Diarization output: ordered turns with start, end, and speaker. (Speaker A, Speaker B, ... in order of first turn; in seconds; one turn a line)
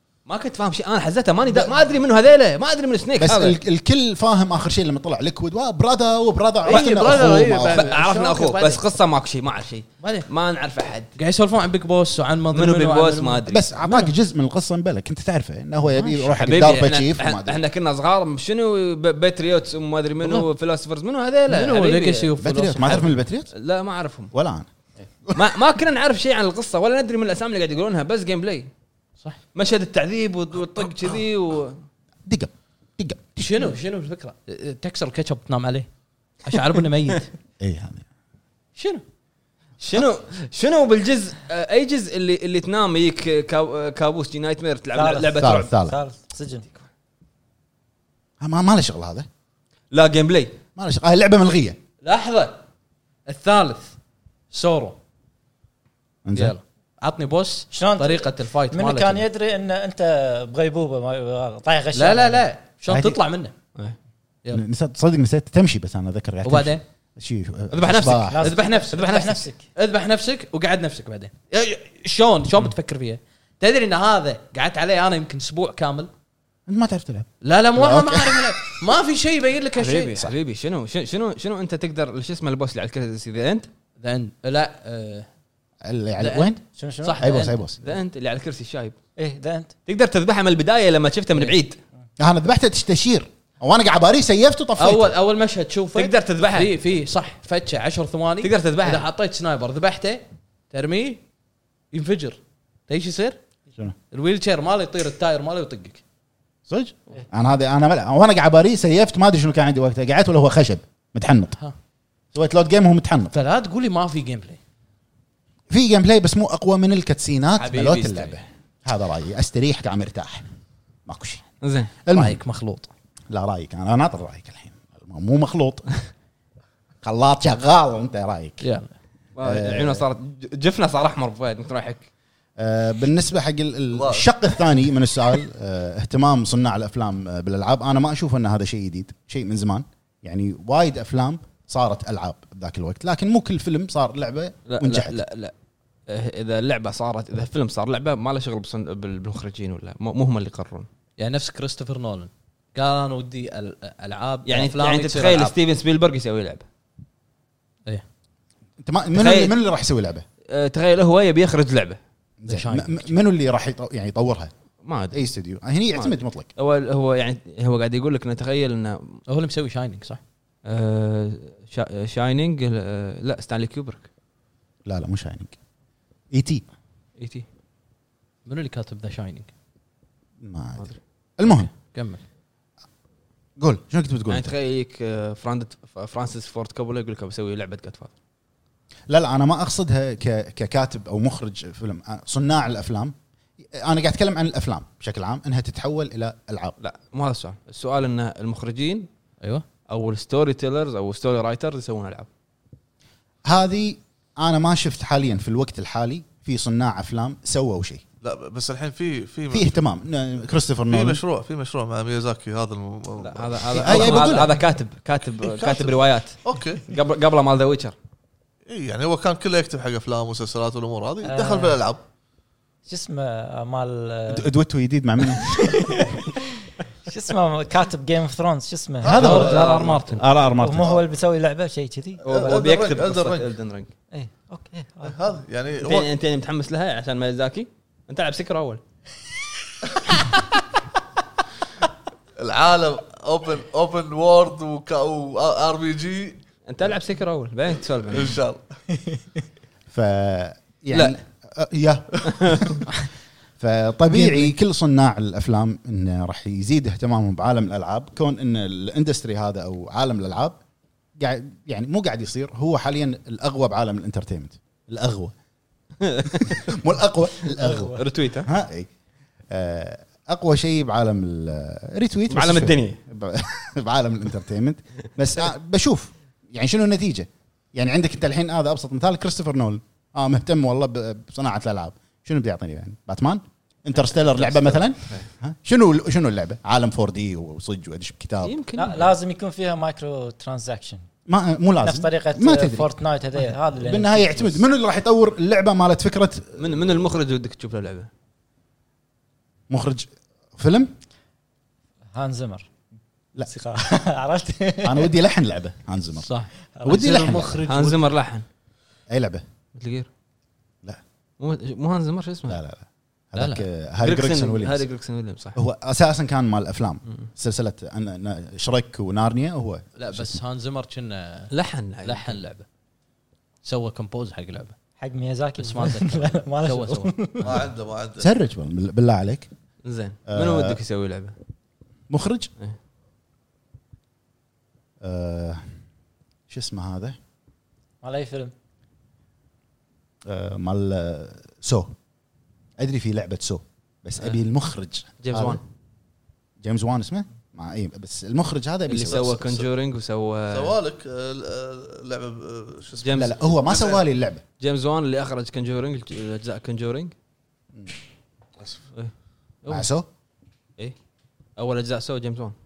Speaker A: 0.3-3.6
Speaker B: 3.2-7.9
Speaker C: 6.6-8.8
Speaker A: 6.7-11.1
Speaker C: 11.2-14.1
Speaker A: 12.5-13.6
Speaker B: 13.5-17.6
Speaker C: 15.9-16.3
Speaker A: 16.3-22.3
Speaker C: 21.5-23.1
Speaker B: 22.4-23.5
Speaker A: 23.5-24.3
Speaker B: 24.3-25.4
Speaker A: 25.3-28.7
Speaker A: 29.5-31.8
Speaker B: 32.2-33.6
Speaker C: 33.4-35.9
Speaker C: 36.4-37.3
Speaker B: 37.6-38.0
Speaker C: 38.8-39.0
Speaker A: 39.8-45.7
Speaker D: 44.9-46.6
Speaker B: 45.4-46.0
Speaker B: 48.4-49.3
Speaker A: 49.9-50.5
Speaker B: 50.8-51.8
Speaker C: 52.0-52.6
Speaker C: 53.3-54.0
Speaker C: 54.5-55.0
Speaker B: 56.2-56.5
Speaker C: 56.3-59.2
Speaker D: 57.7-62.4
Speaker C: 61.9-63.5
Speaker B: 62.9-63.2
Speaker B: 64.5-68.5
Speaker C: 66.4-66.8
Speaker A: 67.7-68.4
Speaker D: 68.3-69.6
Speaker C: 68.4-76.1
Speaker A: 68.9-69.4
Speaker B: 76.7-78.6
Speaker C: 77.4-80.2
Speaker A: 79.8-83.7
Speaker C: 84.0-85.3
Speaker B: 85.8-86.6
Speaker C: 86.2-87.6
Speaker D: 86.8-87.3
Speaker B: 87.2-87.8
Speaker A: 87.8-89.0
Speaker D: 89.2-89.7
Speaker A: 89.9-91.8
Speaker B: 92.2-95.1
Speaker C: 94.8-101.2
Speaker A: 95.9-96.7
Speaker A: 98.4-99.0
Speaker C: 101.9-103.4
Speaker C: 104.1-106.0
Speaker B: 106.7-111.5
Speaker B: 112.3-113.3
Speaker C: 113.3-114.6
Speaker B: 115.7-120.5
Speaker A: 117.6-118.4
Speaker B: 121.0-121.4
Speaker A: 121.6-121.9
Speaker B: 122.0-122.4
Speaker C: 122.1-122.9
Speaker B: 123.3-125.9
Speaker B: 127.0-128.6
Speaker C: 128.6-128.9
Speaker A: 129.3-132.1
Speaker B: 129.4-130.0
Speaker B: 132.6-145.2
Speaker E: 133.9-134.3
Speaker A: 144.7-145.5
Speaker A: 146.1-150.9
Speaker C: 151.2-155.5
Speaker A: 154.4-156.6
Speaker B: 158.8-160.2
Speaker A: 159.1-159.5
Speaker A: 160.5-162.0
Speaker B: 162.4-164.5
Speaker C: 162.5-163.2
Speaker A: 164.8-165.2
Speaker B: 165.1-166.5
Speaker A: 165.9-169.2
Speaker C: 169.3-170.2
Speaker A: 170.6-174.1
Speaker B: 174.8-175.6
Speaker B: 176.3-176.6
Speaker A: 177.2-177.4
Speaker C: 178.4-179.5
Speaker B: 180.4-181.7
Speaker C: 181.5-182.2
Speaker B: 183.6-184.5
Speaker A: 184.3-188.1
Speaker B: 189.1-193.1
Speaker B: 193.7-196.7
Speaker A: 196.8-199.1
Speaker A: 199.9-202.3
Speaker B: 203.5-208.0
Speaker E: 208.2-209.8
Speaker B: 209.5-211.2
Speaker E: 210.9-214.3
Speaker A: 213.2-217.9
Speaker B: 213.8-214.5
Speaker E: 215.4-216.8
Speaker E: 218.7-222.0
Speaker D: 221.2-221.8
Speaker D: 222.8-224.5
Speaker B: 224.3-226.0
Speaker D: 225.4-226.4
Speaker D: 227.1-229.5
Speaker E: 229.0-230.0
Speaker B: 229.0-229.6
Speaker C: 229.1-230.2
Speaker A: 229.3-230.2
Speaker B: 230.2-231.0
Speaker D: 230.5-232.6
Speaker A: 232.2-233.9
Speaker E: 232.3-233.5
Speaker D: 234.1-235.2
Speaker E: 235.0-236.1
Speaker A: 235.8-238.8
Speaker E: 242.4-246.4
Speaker A: 246.7-248.4
Speaker E: 248.1-248.6
Speaker B: 249.9-252.8
Speaker A: 252.3-252.8
Speaker B: 253.6-260.6
Speaker D: 254.1-254.5
Speaker B: 261.2-265.3
Speaker A: 266.0-266.6
Speaker B: 266.4-268.9
Speaker D: 267.6-268.0
Speaker A: 267.9-268.5
Speaker B: 269.5-288.5
Speaker A: 272.3-273.0
Speaker A: 284.3-285.2
Speaker A: 288.4-289.1
Speaker D: 288.8-291.1
Speaker B: 291.3-292.9
Speaker D: 291.8-294.6
Speaker B: 293.8-296.6
Speaker A: 296.6-298.1
Speaker B: 299.7-300.9
Speaker D: 302.1-302.7
Speaker D: 303.4-305.1
Speaker B: 304.8-306.3
Speaker C: 306.2-308.0
Speaker D: 306.8-307.3
Speaker B: 306.8-307.6
Speaker A: 307.7-308.4
Speaker B: 309.1-309.4
Speaker A: 309.7-310.1
Speaker A: 311.4-312.6
Speaker B: 312.5-314.9
Speaker C: 313.4-313.6
Speaker A: 314.0-315.6
Speaker B: 315.5-320.3
Speaker C: 319.9-321.5
Speaker A: 321.5-322.4
Speaker C: 322.0-322.6
Speaker C: 323.6-324.7
Speaker D: 325.0-327.6
Speaker C: 325.6-327.1
Speaker E: 327.4-328.3
Speaker B: 328.2-329.5
Speaker A: 329.8-331.3
Speaker B: 330.3-330.8
Speaker B: 332.1-332.5
Speaker B: 335.0-335.6
Speaker B: 336.5-337.2
Speaker D: 338.0-338.5
Speaker B: 340.2-341.9
Speaker B: 342.8-345.6
Speaker A: 344.2-344.4
Speaker A: 345.2-345.6
Speaker B: 346.6-349.5
Speaker A: 348.9-350.8
Speaker E: 349.1-349.6
Speaker E: 350.5-354.0
Speaker A: 353.0-353.3
Speaker B: 353.1-354.4
Speaker A: 354.6-357.1
Speaker B: 359.7-360.1
Speaker A: 361.6-362.5